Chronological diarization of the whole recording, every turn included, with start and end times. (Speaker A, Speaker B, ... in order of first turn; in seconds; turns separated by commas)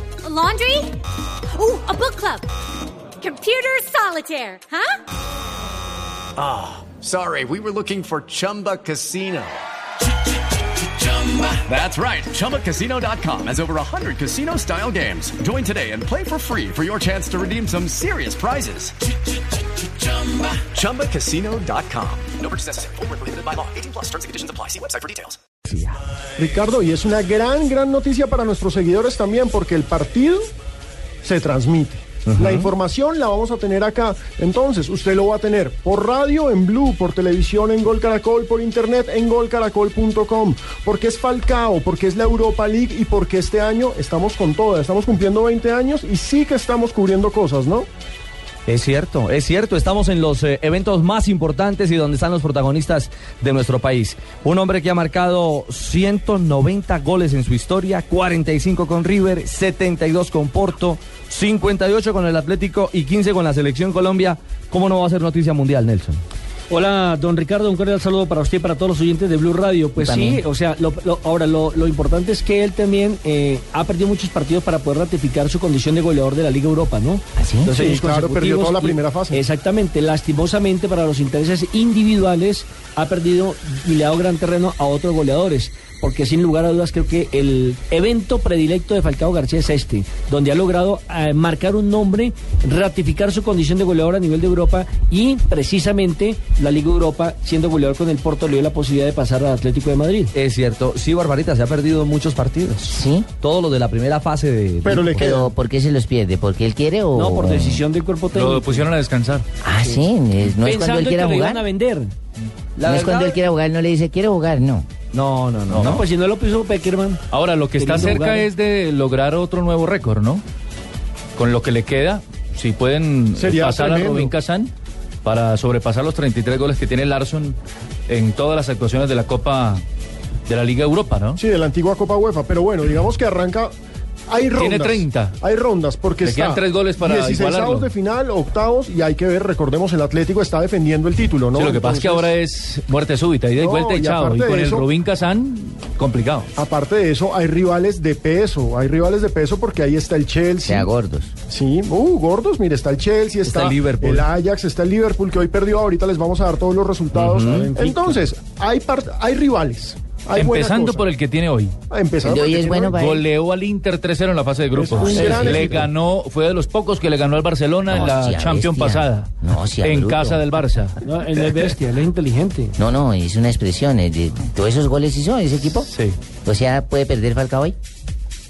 Speaker A: 0.2-1.0, Speaker A: 1.5-2.5, Speaker A: 3.2-4.9, Speaker B: 6.4-9.6, Speaker B: 10.7-19.0, Speaker B: 19.8-25.4, Speaker C: 26.4-30.5, Speaker C: 31.2-47.9, Speaker D: 32.3-32.7, Speaker D: 48.7-66.2, Speaker E: 66.7-100.3, Speaker F: 70.0-70.4, Speaker F: 77.3-77.7, Speaker C: 77.7-79.4, Speaker D: 100.3-105.5, Speaker F: 102.9-103.3, Speaker C: 104.8-105.4, Speaker F: 105.1-107.8, Speaker E: 107.1-108.9, Speaker G: 108.3-109.5, Speaker F: 109.6-111.6, Speaker E: 110.6-112.1, Speaker D: 112.8-113.4, Speaker F: 112.8-114.9, Speaker D: 115.1-116.0, Speaker G: 115.7-116.0, Speaker E: 115.8-117.2, Speaker G: 117.3-120.4, Speaker E: 117.8-118.5, Speaker G: 121.3-124.7, Speaker C: 123.3-124.3, Speaker G: 125.2-127.6, Speaker G: 128.1-129.8, Speaker G: 130.5-131.4, Speaker C: 131.3-133.7, Speaker C: 134.3-142.3, Speaker G: 134.6-135.3, Speaker G: 136.2-137.9, Speaker G: 141.5-146.5, Speaker C: 143.6-144.9, Speaker C: 146.6-150.9, Speaker F: 150.6-151.3, Speaker C: 151.5-161.1, Speaker G: 153.4-154.2, Speaker D: 157.1-157.7, Speaker E: 157.4-158.2, Speaker G: 160.3-161.7, Speaker C: 161.9-163.0, Speaker F: 162.2-163.2, Speaker G: 162.9-171.0, Speaker C: 164.7-165.9, Speaker F: 165.0-165.7, Speaker F: 167.9-170.4, Speaker E: 171.0-172.7, Speaker F: 172.8-175.9, Speaker G: 175.8-176.2, Speaker F: 176.4-177.8